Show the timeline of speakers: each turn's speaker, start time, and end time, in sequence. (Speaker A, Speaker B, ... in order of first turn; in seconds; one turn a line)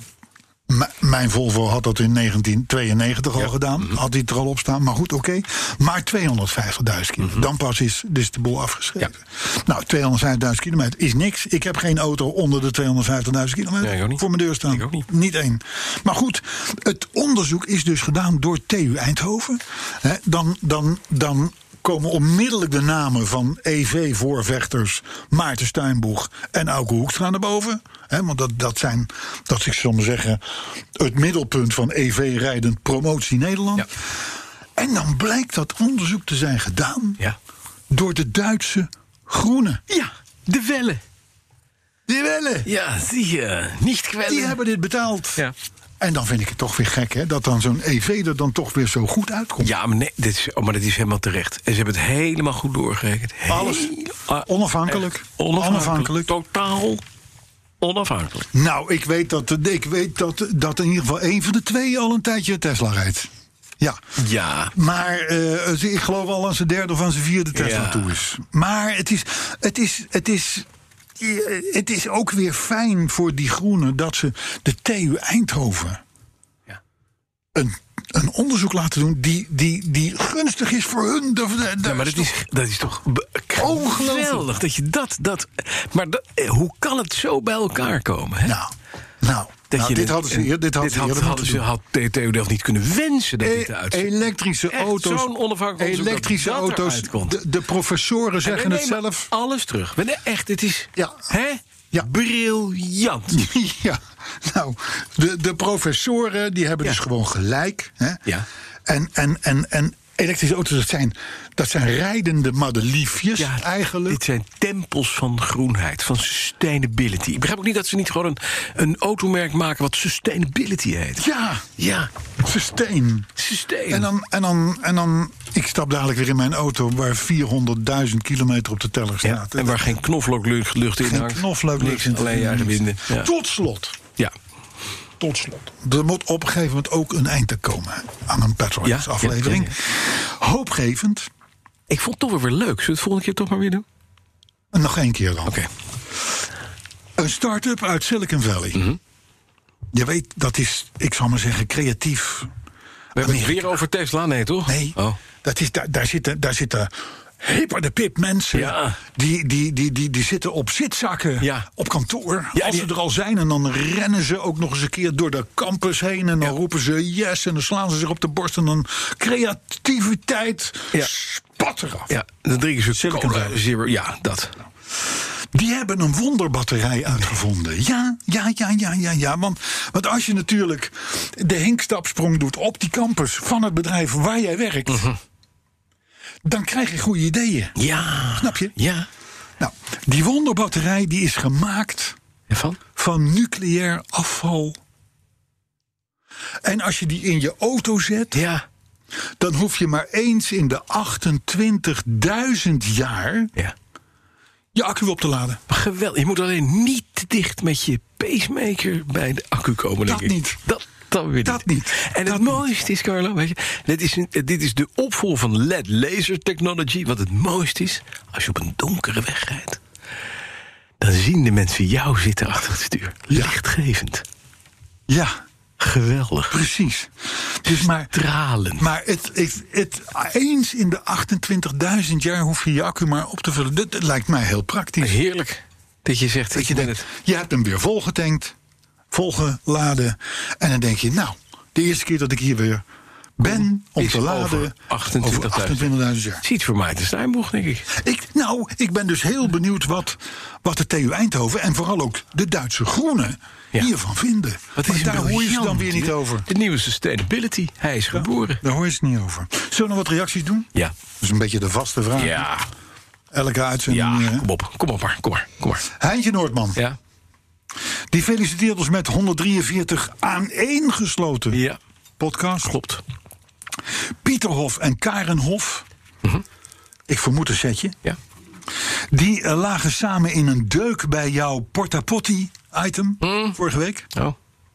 Speaker A: 0.7-30.4
Speaker B: 3.4-4.0
Speaker B: 13.8-15.1
Speaker A: 31.0-33.9
Speaker A: 34.8-37.2
Speaker A: 37.9-39.8
Speaker B: 39.9-41.0
Speaker A: 42.1-42.7
Speaker B: 42.6-44.6
Speaker A: 44.3-45.4
Speaker A: 46.0-49.7
Speaker B: 49.6-57.0
Speaker A: 53.5-56.3
Speaker B: 57.8-58.5
Speaker A: 58.5-64.0
Speaker B: 64.2-64.7
Speaker A: 64.7-70.7
Speaker B: 67.5-68.2
Speaker A: 71.2-76.0
Speaker A: 77.5-82.3
Speaker B: 81.8-88.6
Speaker A: 83.6-84.5
Speaker A: 88.4-91.7
Speaker B: 89.7-94.1
Speaker A: 93.4-99.3
Speaker B: 94.7-97.4
Speaker B: 98.4-103.5
Speaker A: 101.0-101.3
Speaker A: 103.3-108.2
Speaker A: 108.9-114.2
Speaker B: 113.4-121.2
Speaker A: 121.2-121.8
Speaker B: 121.8-122.1
Speaker A: 122.4-123.3
Speaker B: 123.4-124.1
Speaker A: 123.9-130.0
Speaker B: 129.2-133.3
Speaker A: 131.0-134.0
Speaker A: 135.2-141.3
Speaker B: 138.8-139.8
Speaker B: 141.9-143.8
Speaker A: 144.7-145.6
Speaker A: 147.2-148.8
Speaker A: 149.9-152.5
Speaker B: 153.2-155.2
Speaker A: 153.2-153.7
Speaker A: 154.7-172.2
Speaker B: 158.5-159.0
Speaker B: 161.4-161.7
Speaker B: 162.6-162.9
Speaker B: 172.1-174.6
Speaker A: 172.9-173.7
Speaker A: 175.5-185.1
Speaker B: 184.9-185.2
Speaker A: 186.5-187.8
Speaker B: 187.8-189.1
Speaker A: 188.3-188.7
Speaker A: 189.6-192.2
Speaker B: 192.5-192.8
Speaker A: 193.0-194.8
Speaker A: 196.6-198.5
Speaker B: 198.3-198.7
Speaker A: 199.4-203.5
Speaker A: 204.7-205.6
Speaker B: 205.7-219.8
Speaker A: 210.1-210.6
Speaker A: 211.4-212.6
Speaker B: 221.0-224.2
Speaker A: 223.3-223.6
Speaker A: 225.1-225.4
Speaker B: 225.8-226.6
Speaker A: 226.5-228.1
Speaker B: 227.7-228.9
Speaker A: 228.8-235.2
Speaker B: 235.0-237.1
Speaker A: 236.5-238.6
Speaker A: 239.1-242.8
Speaker A: 243.4-246.4
Speaker B: 243.5-247.9
Speaker A: 247.9-256.5
Speaker B: 254.8-258.6
Speaker A: 258.1-262.5
Speaker B: 262.2-262.7
Speaker A: 263.3-264.5
Speaker B: 263.9-265.9
Speaker A: 265.9-266.8
Speaker A: 268.1-271.6
Speaker B: 271.5-271.8
Speaker A: 272.2-272.8
Speaker B: 272.6-273.0
Speaker A: 274.2-275.9
Speaker A: 277.1-278.0
Speaker A: 279.1-284.1
Speaker B: 283.2-283.6